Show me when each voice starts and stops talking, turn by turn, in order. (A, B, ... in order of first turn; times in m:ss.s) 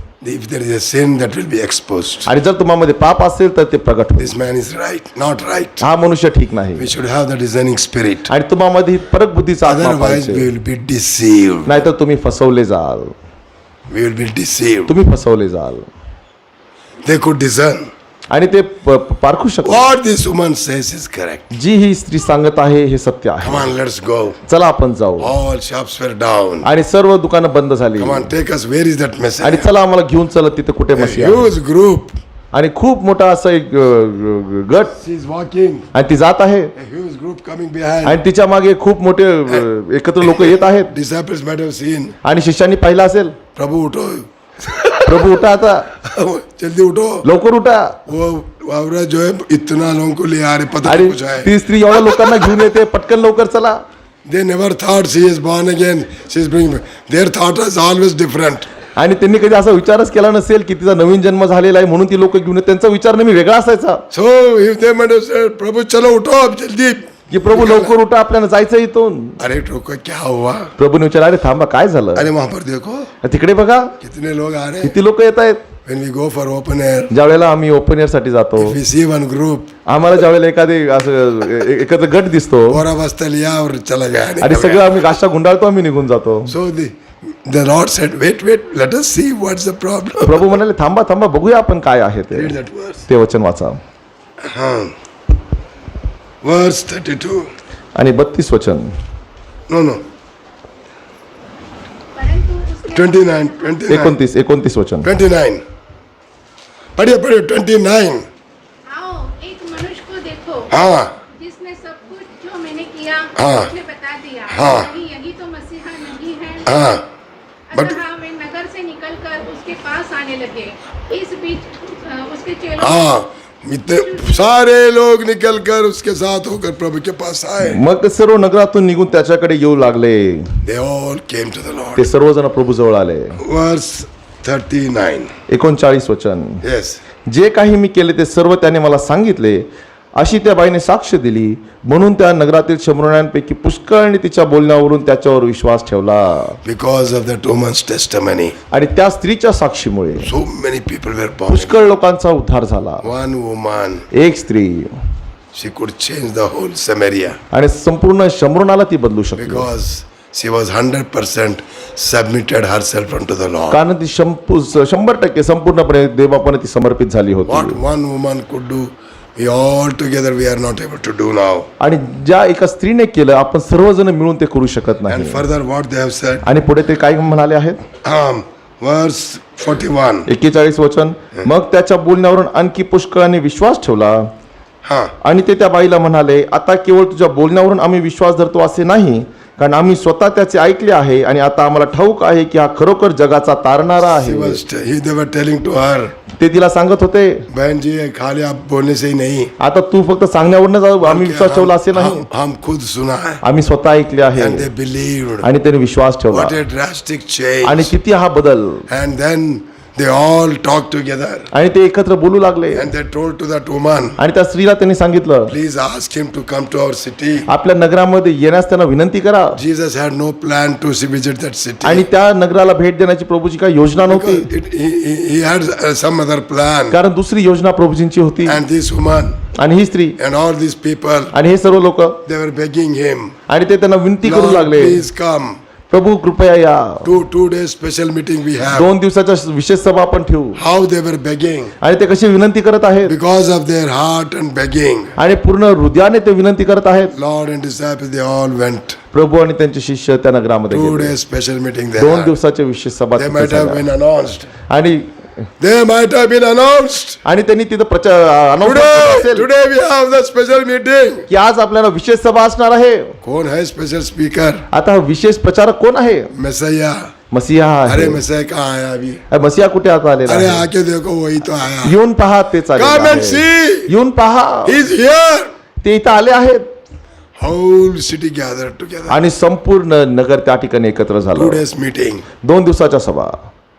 0:00.2-0:02.3 A
0:02.3-0:04.4 B
0:04.2-0:05.8 A
0:05.8-0:06.9 B
0:06.8-0:08.3 A
0:08.3-0:10.5 B
0:09.6-0:11.8 A
0:11.7-0:13.1 B
0:13.9-0:14.9 A
0:14.9-0:15.9 B
0:17.0-0:17.9 A
0:18.3-0:19.9 B
0:19.6-0:21.5 A
0:21.5-0:23.7 B
0:23.4-0:24.4 A
0:24.5-0:25.3 B
0:25.2-0:26.7 A
0:26.6-0:28.3 B
0:28.0-0:29.7 A
0:29.4-0:31.5 B
0:31.0-0:32.1 A
0:32.5-0:35.0 B
0:34.9-0:35.9 A
0:35.9-0:36.7 B
0:36.7-0:38.2 A
0:38.0-0:40.9 B
0:40.2-0:42.2 A
0:42.2-0:43.4 B
0:43.6-0:45.3 A
0:45.0-0:45.9 B
0:45.9-0:47.3 A
0:47.2-0:48.0 B
0:48.1-0:51.5 A
0:50.8-0:53.8 B
0:54.2-0:58.7 A
0:59.0-1:04.0 B
1:04.1-1:07.9 A
1:07.3-1:09.4 B
1:09.4-1:10.7 A
1:10.8-1:12.3 B
1:12.1-1:13.1 A
1:13.2-1:13.9 B
1:14.0-1:15.0 A
1:14.8-1:15.6 B
1:15.9-1:17.1 A
1:17.1-1:18.8 B
1:18.6-1:19.7 A
1:19.9-1:22.8 B
1:22.7-1:25.1 A
1:24.4-1:26.5 B
1:26.5-1:30.6 A
1:30.2-1:32.6 B
1:32.3-1:33.1 A
1:33.1-1:33.8 B
1:34.4-1:34.9 A
1:36.4-1:37.5 A
1:38.0-1:38.9 B
1:39.7-1:40.0 A
1:42.2-1:43.7 C
1:42.9-1:44.2 A
1:43.9-1:45.1 B
1:45.0-1:45.6 A
1:47.0-1:48.2 A
1:48.9-1:50.7 C
1:50.7-1:51.1 A
1:51.3-1:57.0 C
1:53.4-1:53.7 A
1:54.5-1:54.9 A
1:56.7-1:57.0 A
1:57.7-2:03.2 C
1:57.7-1:58.0 A
2:02.8-2:07.8 A
2:07.6-2:10.6 B
2:10.6-2:12.1 A
2:12.0-2:13.4 B
2:13.4-2:15.3 A
2:15.5-2:16.6 B
2:16.6-2:17.0 A
2:17.3-2:26.6 B
2:26.6-2:28.5 A
2:28.7-2:30.3 B
2:30.2-2:31.9 A
2:31.5-2:33.1 B
2:33.0-2:34.1 A
2:34.1-2:34.9 B
2:35.5-2:37.4 A
2:37.5-2:39.7 B
2:39.4-2:43.8 A
2:43.7-2:47.8 B
2:47.5-2:51.7 A
2:51.8-2:55.4 B
2:55.1-2:56.4 A
2:56.4-2:57.8 B
2:58.0-3:00.3 A
3:00.3-3:04.3 B
3:04.8-3:05.2 A
3:05.2-3:14.6 B
3:14.0-3:16.1 A
3:16.3-3:17.5 B
3:17.5-3:19.5 A
3:19.6-3:22.2 B
3:21.0-3:23.4 A
3:23.4-3:24.7 B
3:24.4-3:25.5 A
3:25.4-3:26.6 B
3:26.3-3:27.9 A
3:27.6-3:28.9 B
3:28.9-3:31.5 A
3:31.5-3:32.9 B
3:32.7-3:34.2 A
3:34.2-3:35.5 B
3:35.5-3:37.5 A
3:37.5-3:39.6 B
3:39.6-3:42.0 A
3:41.8-3:44.5 B
3:44.0-3:47.0 A
3:46.9-3:48.6 B
3:48.5-3:49.4 A
3:49.5-3:50.2 B
3:50.2-3:51.3 A
3:51.3-3:52.2 B
3:52.2-3:53.4 A
3:53.5-3:55.0 B
3:54.2-3:55.6 A
3:55.9-3:57.1 B
3:57.0-3:58.9 A
3:58.7-4:00.6 B
4:00.6-4:01.7 A
4:01.8-4:03.1 B
4:03.0-4:05.1 A
4:05.2-4:07.1 B
4:07.1-4:09.0 A
4:09.1-4:11.1 B
4:10.7-4:12.4 A
4:12.0-4:13.9 B
4:13.2-4:14.5 A
4:14.7-4:15.1 B
4:15.6-4:17.2 A
4:17.2-4:19.5 B
4:18.6-4:21.3 A
4:21.3-4:23.2 B
4:23.2-4:24.6 A
4:24.7-4:26.3 B
4:26.3-4:27.1 A
4:27.3-4:28.2 B
4:27.9-4:29.2 A
4:29.3-4:30.7 B
4:30.2-4:32.0 A
4:31.8-4:34.8 B
4:32.8-4:33.9 A
4:34.6-4:35.5 A
4:35.8-4:36.6 B
4:37.4-4:39.2 A
4:39.1-4:41.6 B
4:41.4-4:42.2 A
4:42.4-4:43.4 B